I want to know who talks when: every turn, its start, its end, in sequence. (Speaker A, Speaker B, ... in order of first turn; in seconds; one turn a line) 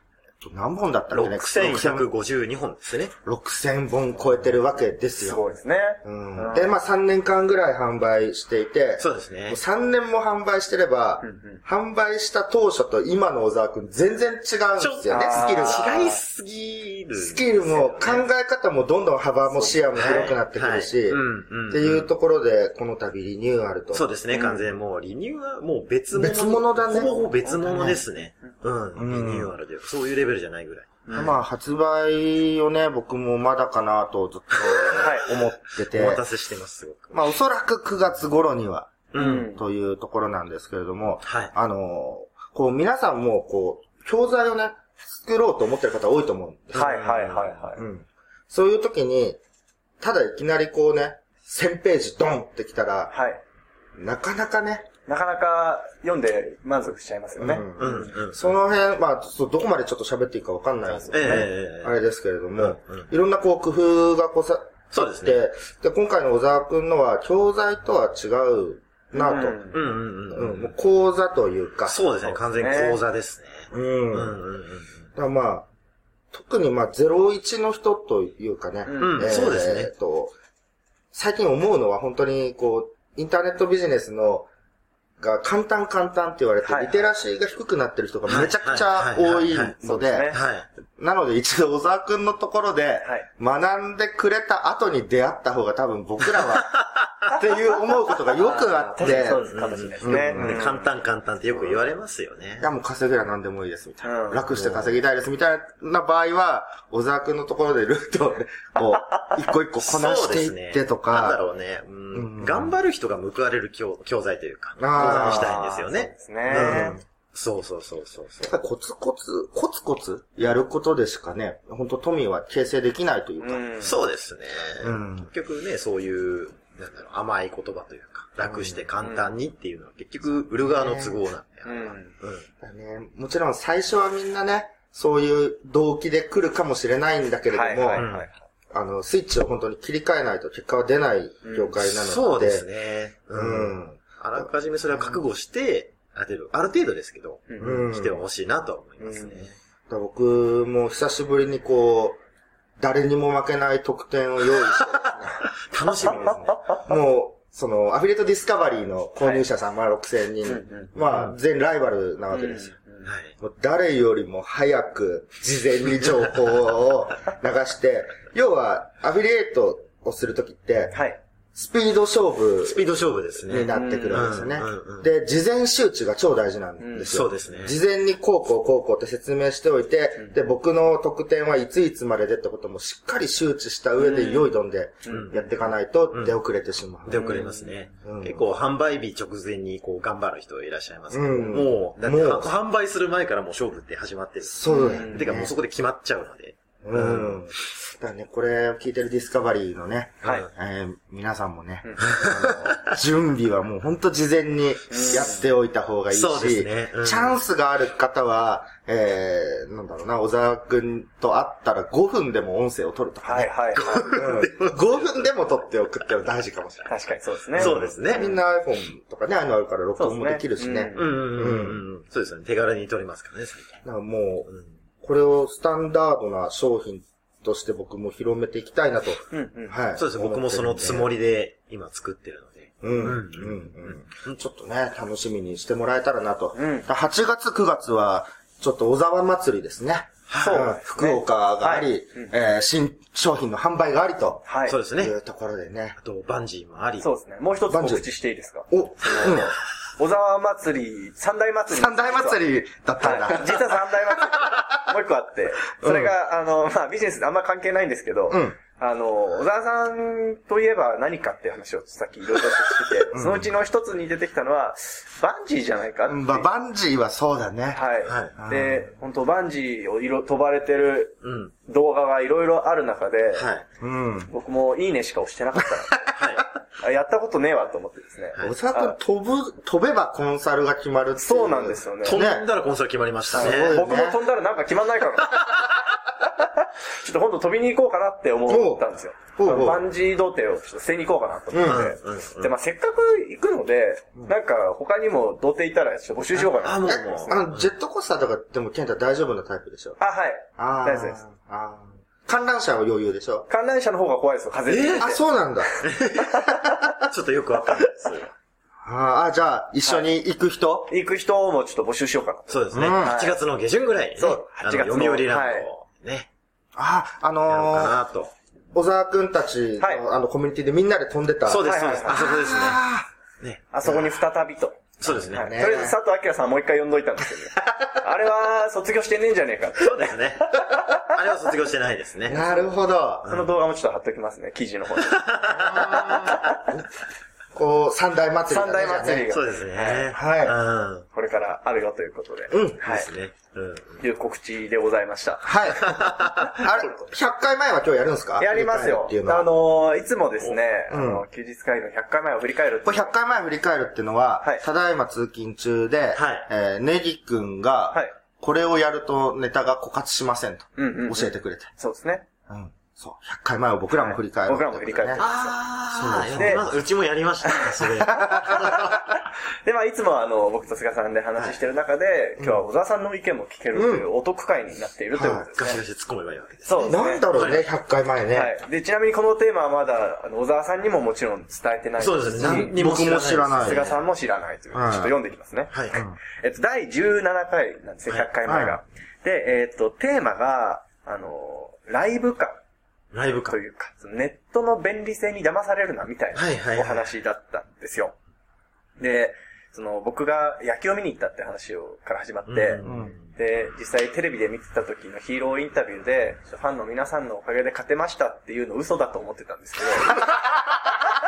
Speaker A: 0.4-2.1
Speaker B: 1.1-3.1
Speaker A: 3.2-5.4
Speaker C: 5.2-6.8
Speaker A: 6.0-16.0
Speaker B: 9.0-9.6
Speaker C: 11.2-11.6
Speaker B: 14.8-18.2
Speaker C: 15.1-16.2
Speaker A: 17.2-24.1
Speaker C: 19.5-20.4
Speaker B: 20.0-22.1
Speaker B: 23.9-31.4
Speaker C: 24.3-24.6
Speaker A: 26.1-28.0
Speaker C: 26.9-28.5
Speaker A: 28.9-29.5
Speaker C: 31.1-31.4
Speaker A: 31.1-36.2
Speaker B: 34.5-37.2
Speaker C: 35.0-35.3
Speaker A: 37.1-47.0
Speaker B: 39.1-39.5
Speaker C: 39.1-39.6
Speaker B: 41.2-41.5
Speaker B: 46.7-47.7
Speaker C: 46.7-47.8
Speaker A: 47.8-49.4
Speaker A: 50.0-53.1
Speaker C: 53.1-53.4
Speaker A: 54.0-54.9
Speaker C: 55.1-58.1
Speaker A: 57.4-69.6
Speaker B: 57.8-58.5
Speaker C: 60.9-61.5
Speaker B: 61.1-62.0
Speaker B: 62.6-63.1
Speaker B: 64.9-65.4
Speaker C: 69.1-69.8
Speaker B: 69.7-70.7
Speaker A: 70.3-72.0
Speaker B: 71.9-75.1
Speaker C: 72.2-73.0
Speaker A: 73.7-74.4
Speaker A: 75.2-75.7
Speaker A: 76.3-80.3
Speaker C: 78.8-79.4
Speaker B: 79.0-79.9
Speaker A: 81.1-84.5
Speaker A: 85.2-90.3
Speaker C: 86.7-87.0
Speaker B: 88.3-89.8
Speaker C: 89.8-90.4
Speaker B: 90.3-90.7
Speaker A: 91.0-99.5
Speaker B: 96.6-97.3
Speaker C: 98.3-100.9
Speaker B: 99.0-102.7
Speaker A: 100.0-100.7
Speaker A: 102.6-111.4
Speaker C: 104.0-104.5
Speaker B: 104.5-105.0
Speaker C: 109.0-109.3
Speaker B: 109.8-118.5
Speaker A: 112.1-112.7
Speaker A: 114.8-115.6
Speaker C: 115.0-117.0
Speaker A: 116.5-117.0
Speaker A: 118.4-123.7
Speaker C: 123.4-124.0
Speaker B: 123.8-132.5
Speaker A: 124.8-125.3
Speaker A: 128.4-128.9
Speaker C: 129.0-129.3
Speaker A: 130.6-131.2
Speaker C: 131.7-132.1
Speaker A: 132.6-138.1
Speaker C: 137.5-138.4
Speaker B: 137.9-138.3
Speaker A: 138.7-142.7
Speaker C: 141.4-141.8
Speaker B: 141.8-149.6
Speaker A: 143.3-145.2
Speaker C: 147.5-147.7
Speaker A: 147.6-148.2
Speaker C: 149.0-149.4
Speaker A: 149.9-152.2
Speaker A: 152.8-162.8
Speaker B: 154.7-156.6
Speaker C: 156.2-156.8
Speaker C: 160.5-160.9
Speaker B: 161.1-161.3
Speaker C: 162.3-163.1
Speaker B: 163.1-163.3
Speaker A: 163.4-171.0
Speaker C: 170.9-171.2
Speaker A: 171.6-187.5
Speaker B: 172.7-175.1
Speaker C: 173.5-174.3
Speaker C: 176.8-177.1
Speaker B: 177.1-177.8
Speaker C: 184.0-184.5
Speaker C: 185.1-185.3
Speaker B: 185.1-185.4
Speaker B: 187.1-197.4
Speaker C: 187.1-187.7
Speaker A: 188.0-188.4
Speaker A: 191.1-192.5
Speaker A: 194.4-195.5
Speaker C: 194.7-195.3
Speaker A: 196.8-213.5
Speaker C: 201.8-202.1
Speaker B: 202.0-203.0
Speaker C: 204.9-205.4
Speaker B: 206.1-207.4
Speaker C: 213.2-214.3
Speaker B: 213.7-215.0
Speaker A: 214.1-217.0
Speaker C: 216.9-218.4
Speaker A: 217.5-221.8
Speaker B: 217.6-218.3
Speaker C: 220.0-221.3
Speaker B: 220.9-223.8
Speaker A: 223.8-224.5
Speaker A: 225.0-231.1
Speaker C: 229.3-229.8
Speaker B: 230.0-234.3
Speaker A: 232.8-246.0
Speaker C: 236.5-236.9
Speaker B: 240.3-240.7
Speaker C: 240.4-242.3
Speaker C: 244.5-244.8
Speaker B: 244.7-245.2
Speaker B: 246.0-247.1
Speaker C: 247.0-252.4
Speaker A: 247.7-248.1
Speaker A: 248.7-249.5
Speaker A: 251.7-254.7
Speaker C: 253.0-266.5
Speaker A: 255.8-256.1
Speaker A: 258.3-258.6
Speaker A: 263.1-263.5
Speaker A: 266.1-267.8
Speaker C: 267.7-273.5
Speaker B: 268.1-268.4
Speaker A: 268.4-268.9
Speaker B: 271.2-271.5
Speaker B: 273.4-273.6
Speaker A: 273.8-274.3
Speaker C: 274.3-276.1
Speaker B: 276.1-276.5
Speaker C: 276.8-279.0
Speaker A: 278.4-282.5
Speaker C: 281.2-282.2
Speaker B: 282.0-283.8
Speaker A: 283.3-284.2
Speaker C: 283.4-297.4
Speaker A: 288.5-289.8
Speaker A: 291.5-291.9
Speaker B: 291.6-292.6
Speaker B: 296.4-297.7
Speaker A: 296.9-300.0
Speaker C: 300.0-301.2
Speaker A: 300.6-303.5
Speaker C: 303.5-305.2
Speaker B: 304.7-305.1
Speaker A: 305.0-305.8
Speaker B: 305.8-308.3
Speaker C: 306.2-306.9
Speaker A: 308.8-310.9
Speaker C: 310.9-313.4
Speaker B: 312.5-316.3
Speaker A: 312.7-313.2
Speaker C: 314.2-315.7
Speaker A: 316.8-318.0
Speaker B: 317.5-318.3
Speaker A: 318.7-323.1
Speaker B: 321.5-322.9
Speaker C: 321.6-322.3
Speaker B: 323.4-323.7
Speaker C: 323.7-331.1
Speaker B: 325.0-325.5
Speaker A: 325.3-326.0
Speaker B: 329.8-332.5
Speaker A: 332.2-333.3
Speaker B: 333.2-333.5
Speaker C: 333.3-336.7
Speaker B: 335.0-336.6
Speaker A: 335.5-336.5
Speaker A: 337.5-339.3
Speaker C: 338.5-340.1
Speaker B: 339.3-341.1
Speaker A: 340.1-340.6
Speaker C: 341.1-343.1
Speaker A: 342.5-342.8
Speaker B: 342.8-344.0
Speaker C: 344.0-347.0
Speaker A: 345.4-349.5
Speaker B: 345.8-346.6
Speaker C: 348.4-353.1
Speaker A: 350.9-351.2
Speaker A: 352.9-361.7
Speaker B: 356.1-356.5
Speaker C: 360.8-362.2
Speaker A: 362.5-365.2
Speaker C: 363.9-365.6
Speaker B: 365.2-368.9
Speaker A: 365.9-366.7
Speaker C: 366.4-366.6
Speaker C: 367.5-375.8
Speaker A: 368.1-369.0
Speaker A: 373.8-374.1
Speaker A: 375.1-375.5
Speaker B: 375.6-377.6
Speaker C: 376.7-377.2
Speaker A: 376.9-378.5
Speaker C: 378.3-382.8
Speaker B: 382.0-384.0
Speaker A: 382.4-383.9
Speaker C: 383.6-392.6
Speaker A: 384.7-385.1
Speaker B: 385.7-386.0
Speaker A: 388.5-388.8
Speaker B: 393.1-393.6
Speaker C: 393.4-398.1
Speaker B: 396.3-397.1
Speaker C: 399.0-402.8
Speaker B: 402.5-403.3
Speaker A: 402.8-403.1
Speaker C: 403.4-410.2
Speaker A: 410.1-410.8